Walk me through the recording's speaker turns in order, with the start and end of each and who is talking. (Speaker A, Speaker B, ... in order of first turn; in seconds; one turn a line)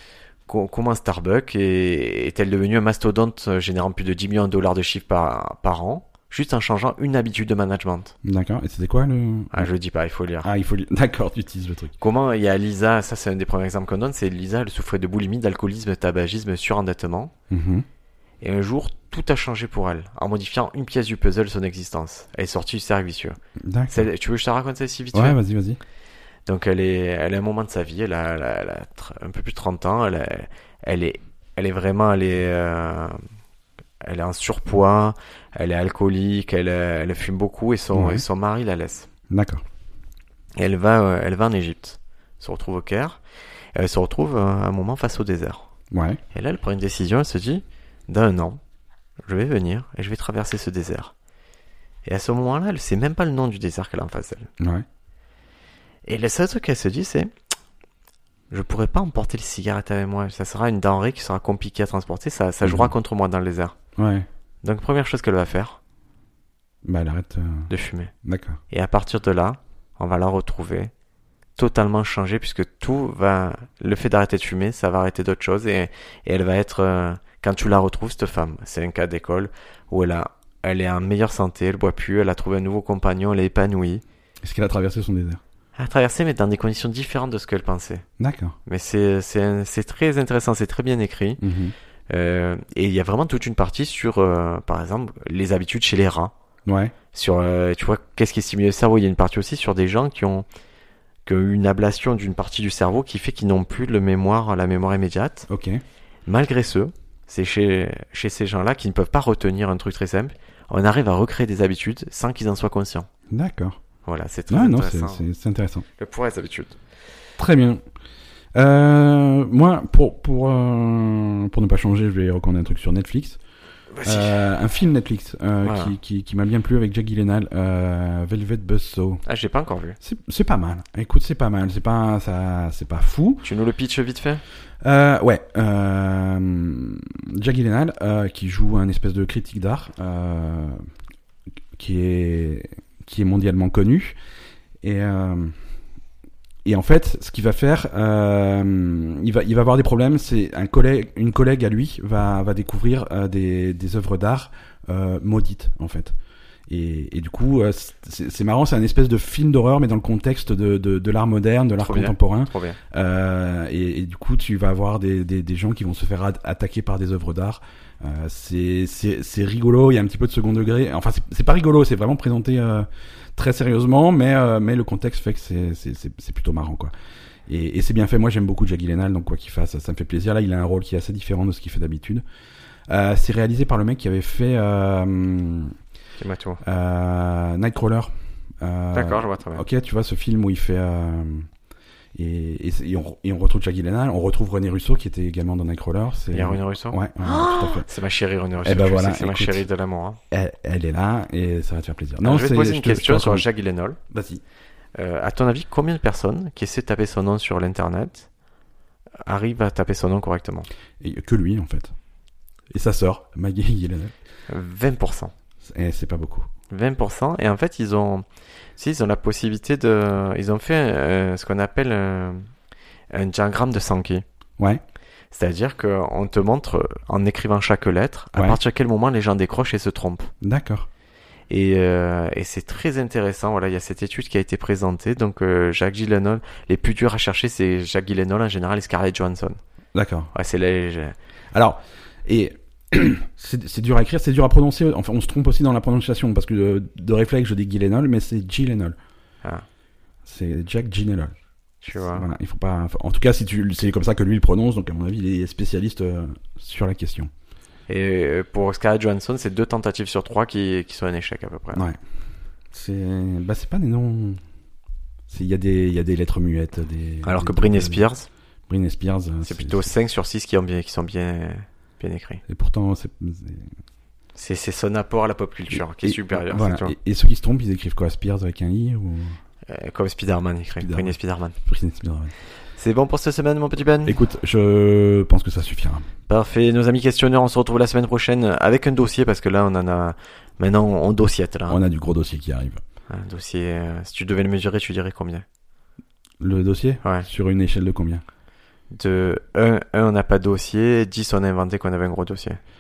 Speaker A: 0.5-8.1
Speaker B: 8.2-9.7
Speaker A: 9.5-10.5
Speaker B: 10.4-11.9
Speaker A: 12.0-17.3
Speaker B: 17.5-17.9
Speaker A: 18.4-23.4
Speaker B: 23.7-24.1
Speaker A: 23.9-25.4
Speaker B: 25.1-25.8
Speaker A: 26.5-33.2
Speaker A: 34.0-39.1
Speaker B: 37.9-38.2
Speaker B: 39.3-39.6
Speaker A: 40.6-43.2
Speaker A: 43.8-45.7
Speaker B: 45.9-46.2
Speaker A: 46.3-48.6
Speaker A: 49.2-51.1
Speaker A: 52.0-54.5
Speaker B: 54.6-54.9
Speaker A: 56.1-57.3
Speaker A: 58.5-63.8
Speaker B: 62.6-62.9
Speaker B: 64.0-64.3
Speaker A: 64.6-65.8
Speaker B: 66.8-67.7
Speaker A: 67.7-68.1
Speaker B: 68.2-68.6
Speaker A: 68.7-70.9
Speaker A: 71.6-84.0
Speaker B: 84.4-85.4
Speaker A: 85.8-88.0
Speaker B: 88.2-88.6
Speaker A: 88.7-91.4
Speaker B: 91.4-91.8
Speaker A: 92.1-96.3
Speaker B: 96.7-96.9
Speaker A: 97.1-100.5
Speaker A: 101.3-105.5
Speaker B: 105.5-105.8
Speaker A: 106.3-113.1
Speaker B: 113.3-113.8
Speaker A: 114.0-115.2
Speaker B: 114.5-115.8
Speaker A: 116.0-116.8
Speaker B: 117.4-117.8
Speaker B: 118.5-123.4
Speaker A: 123.9-124.5
Speaker B: 124.0-129.2
Speaker A: 125.6-125.9
Speaker A: 129.3-130.0
Speaker B: 130.0-133.4
Speaker A: 133.4-134.4
Speaker B: 134.8-140.8
Speaker B: 141.8-144.2
Speaker B: 144.8-145.6
Speaker B: 146.7-156.2
Speaker B: 156.7-176.9
Speaker A: 161.8-162.8
Speaker B: 177.5-182.2
Speaker B: 182.9-185.7
Speaker A: 186.2-186.6
Speaker B: 186.6-191.5
Speaker A: 188.9-189.7
Speaker B: 192.2-197.9
Speaker A: 196.3-200.2
Speaker B: 198.6-199.7
Speaker B: 200.3-203.4
Speaker A: 202.2-204.0
Speaker B: 204.1-204.4
Speaker A: 205.0-208.3
Speaker A: 209.3-210.7
Speaker B: 211.0-211.9
Speaker B: 212.7-214.1
Speaker A: 214.5-215.3
Speaker B: 215.6-216.5
Speaker A: 216.7-218.3
Speaker A: 218.8-222.5
Speaker A: 223.1-224.2
Speaker A: 225.3-230.3
Speaker B: 228.3-228.6
Speaker B: 230.4-230.9
Speaker A: 231.5-239.6
Speaker B: 239.9-240.3
Speaker A: 240.3-241.2
Speaker B: 241.5-249.0
Speaker B: 250.2-251.4
Speaker A: 251.8-252.2
Speaker B: 251.9-257.3
Speaker A: 257.9-261.9
Speaker B: 261.7-262.0
Speaker B: 262.7-264.4
Speaker B: 265.3-268.0
Speaker A: 267.2-268.3
Speaker B: 268.7-269.9
Speaker A: 269.4-272.4
Speaker B: 272.5-273.7
Speaker A: 274.4-276.9
Speaker B: 275.7-279.4
Speaker A: 279.7-281.6
Speaker B: 280.8-282.3
Speaker A: 282.8-284.2
Speaker B: 284.1-286.1
Speaker A: 286.3-291.8
Speaker B: 291.7-292.8
Speaker A: 293.1-295.4
Speaker B: 296.4-298.2
Speaker A: 297.0-297.3
Speaker A: 298.9-302.6